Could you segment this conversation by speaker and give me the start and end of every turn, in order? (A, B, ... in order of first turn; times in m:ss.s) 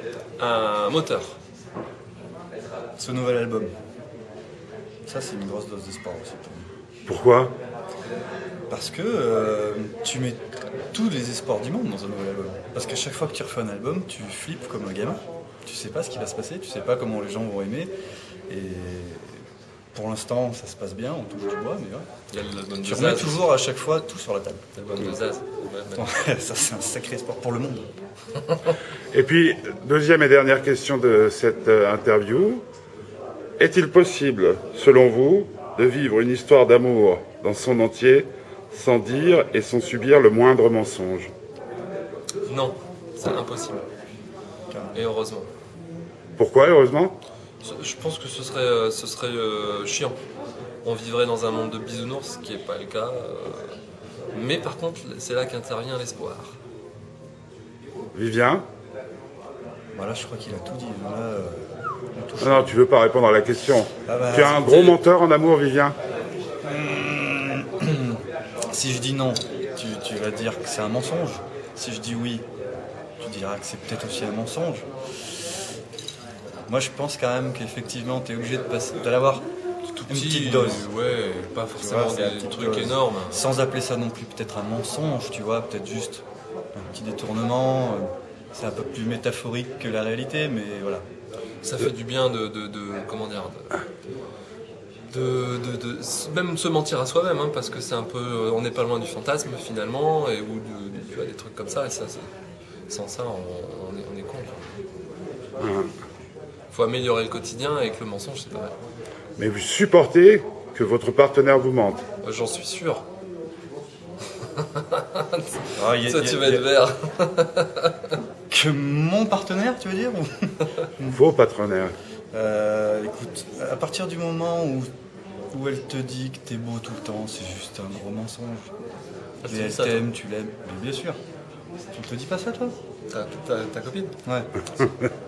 0:00.4-0:01.4 A
0:03.0-0:03.7 B
0:05.1-0:06.7 B
0:07.1-0:07.6 C
0:08.7-0:10.4 B
0:10.9-0:17.9 B
0:18.5-0:19.4 B
0:19.9-0:22.1 B
0:22.3-0:23.5 A
0:22.8-0:25.1 B
0:24.8-0:26.0 A
0:25.9-0:27.9 B
0:29.1-0:32.6 C
0:33.6-0:41.3 C
0:42.4-0:43.8 A
0:44.7-0:45.0 B
0:44.9-0:45.5 A
0:46.4-0:47.1 C
0:47.6-0:50.2 A
0:50.8-0:53.7 A
0:54.3-0:56.6 A
0:58.1-0:58.6 C
1:00.0-1:02.8 B
1:02.4-1:06.0 C
1:04.1-1:04.8 B
1:04.7-1:05.0 A
1:06.7-1:12.4 B
1:13.2-1:15.4 B
1:16.7-1:19.5 B
1:19.9-1:23.4 A
1:20.0-1:20.9 B
1:21.8-1:31.0 B
1:31.6-1:33.8 A
1:35.1-1:42.3 A
1:42.9-1:44.6 A
1:45.6-1:45.9 C
1:46.7-1:48.8 A
1:49.4-1:52.0 C
1:52.2-1:53.0 A
1:54.4-1:58.2 A
1:55.8-1:56.7 B
1:58.5-2:01.2 B
2:01.1-2:02.0 C
2:02.3-2:04.9 B
2:05.5-2:08.7 B
2:09.4-2:10.0 A
2:09.5-2:11.2 B
2:11.9-2:12.8 B
2:13.1-2:14.1 A
2:14.2-2:14.6 B